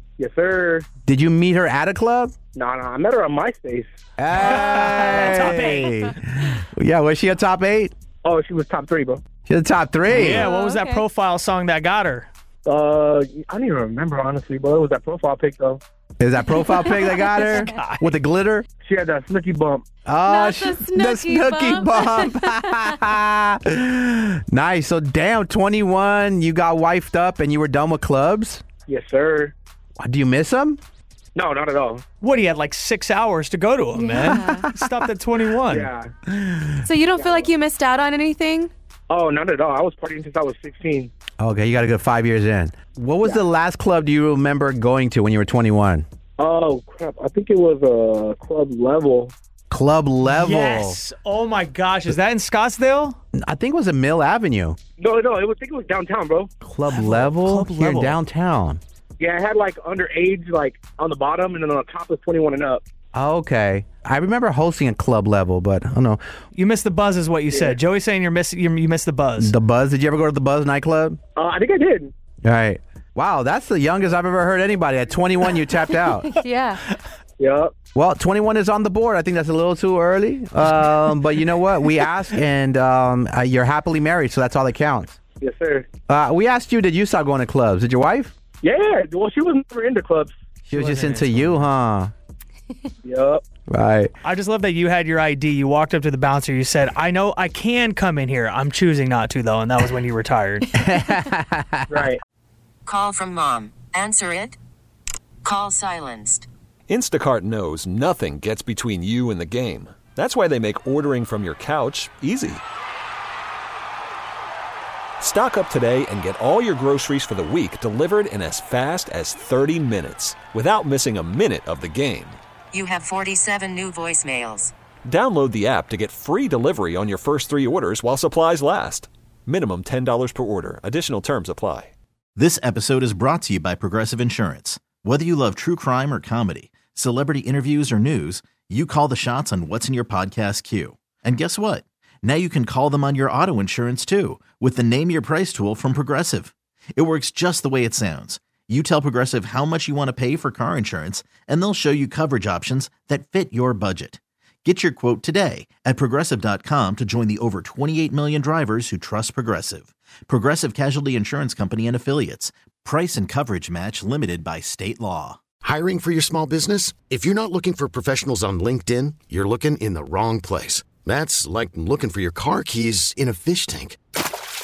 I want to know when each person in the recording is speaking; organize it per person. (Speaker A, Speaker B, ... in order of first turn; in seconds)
Speaker A: 0.2-0.8, 2.5-3.9, 8.2-9.2, 12.7-15.8, 18.8-19.8, 28.9-29.5, 31.4-32.0, 35.7-36.1, 37.1-37.5, 39.1-41.1, 46.4-49.3, 55.0-56.5, 59.2-62.8, 67.5-67.8, 71.3-72.1, 77.4-77.7, 85.4-85.8, 88.6-90.3, 93.0-93.4, 101.9-102.2
Speaker B: 1.0-2.3, 4.2-7.9, 9.5-10.5, 16.2-18.6, 20.1-28.6, 30.0-30.8, 34.2-34.6, 36.3-36.8, 41.4-46.0, 49.7-51.0, 53.4-54.8, 56.6-58.8, 63.1-66.2, 69.4-71.2, 72.4-76.3, 77.9-85.2, 86.1-88.3, 90.7-92.1, 93.7-94.1, 100.7-102.1
Speaker C: 4.5-6.0, 10.1-12.3, 17.4-18.1, 32.2-35.9, 50.2-53.2, 56.9-58.2, 66.5-69.5, 90.7-91.7, 94.2-100.7
Speaker D: 10.4-11.0, 16.6-16.9, 20.2-22.9, 33.9-34.7, 36.9-38.7, 76.1-76.8
Speaker E: 102.9-104.5, 105.5-106.4, 122.7-124.7
Speaker F: 106.9-112.6, 115.2-122.4, 125.0-131.9
Speaker G: 132.4-165.4
Speaker H: 165.6-174.0